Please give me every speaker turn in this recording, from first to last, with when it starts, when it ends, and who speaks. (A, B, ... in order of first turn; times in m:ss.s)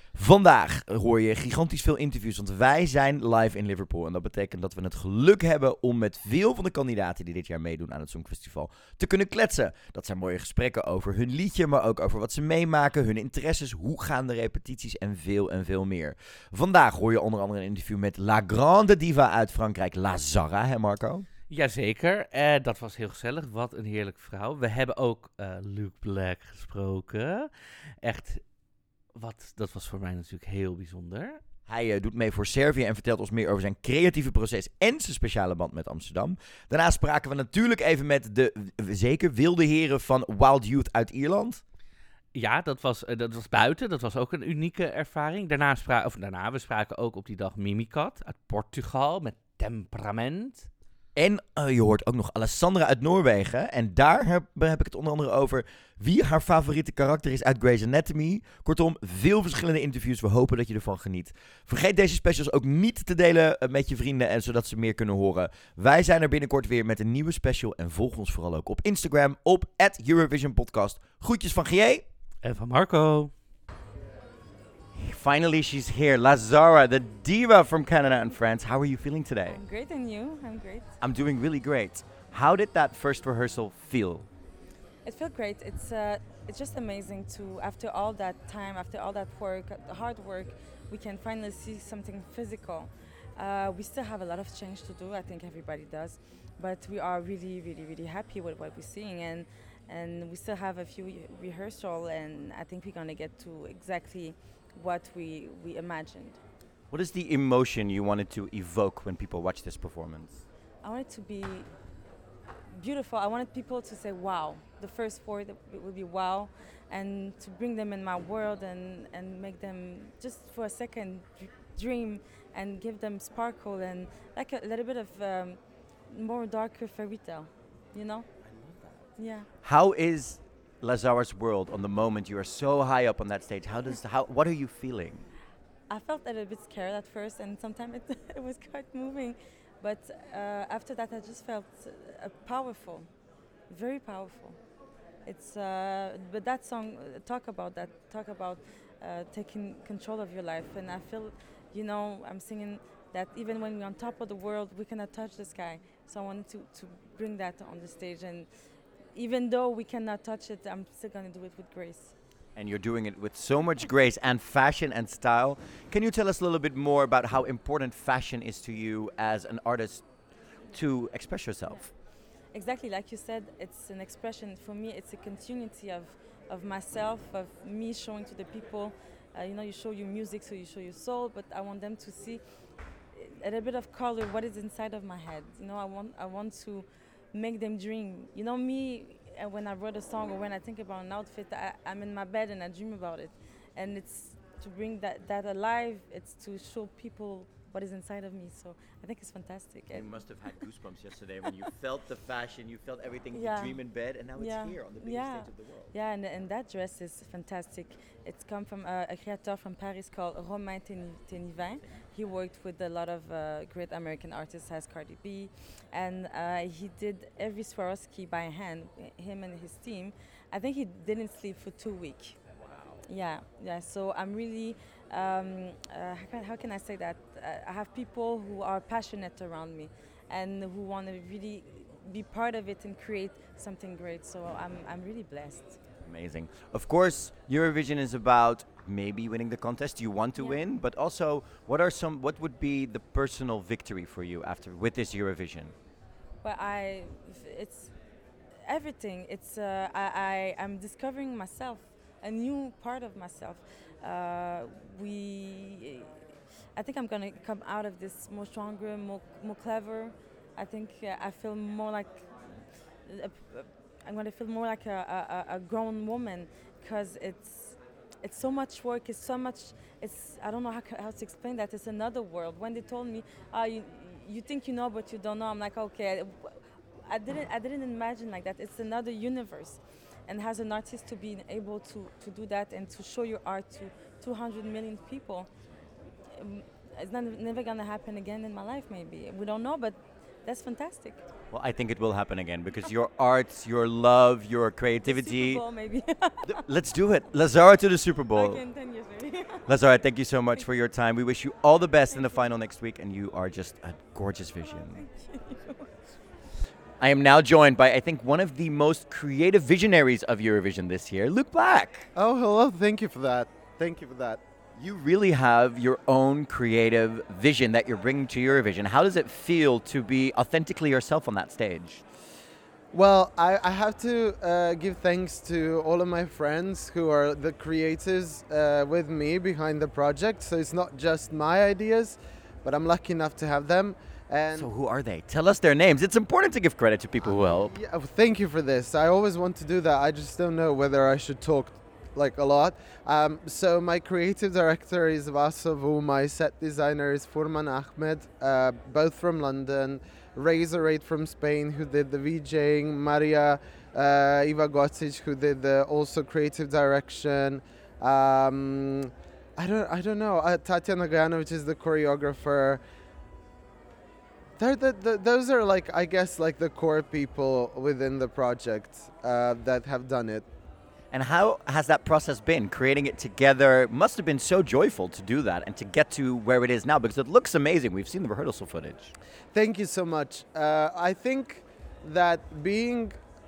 0:00.1-0:21.3 A
0:21.5-0:27.5 B
0:28.0-0:28.5 B
0:29.1-0:31.4 B
0:31.7-0:41.6 A
0:42.3-0:50.7 B
0:51.2-1:12.0 A
1:12.4-1:13.3 B
1:15.0-1:19.6 A
1:19.5-1:20.9 C
1:21.0-1:24.3 A
1:25.0-1:46.4 C
1:46.9-1:50.4 A
1:50.8-1:51.7 C
1:52.7-2:08.3 C
2:08.5-2:08.9 A
2:09.2-2:09.5 C
2:09.6-2:15.2 A
2:15.9-2:23.1 C
2:23.7-2:24.6 C
2:25.2-2:38.5 C
2:39.1-2:42.1 C
2:42.6-2:50.1 A
2:50.7-2:51.9 A
2:52.5-3:02.4 C
3:03.2-3:20.1 C
3:19.9-3:25.9 A
3:23.3-3:23.8 C
3:24.4-3:42.4 C
3:43.1-3:55.8 C
3:56.0-4:05.7 A
4:06.4-4:07.9 C
4:08.6-4:16.1 C
4:16.8-4:22.3 C
4:23.1-4:45.5 C
4:46.3-4:51.2 C
4:51.5-4:55.6 A
4:55.0-4:56.6 C
4:56.5-4:58.6 A
4:58.3-4:59.7 C
4:59.7-5:05.0 A
5:04.9-5:05.8 C
5:07.0-5:12.1 A
5:12.2-5:14.4 D
5:14.8-5:22.0 A
5:22.9-5:34.7 D
5:34.5-5:37.7 A
5:37.2-6:02.8 D
6:04.6-6:10.5 D
6:11.1-6:19.1 A
6:19.5-6:23.2 D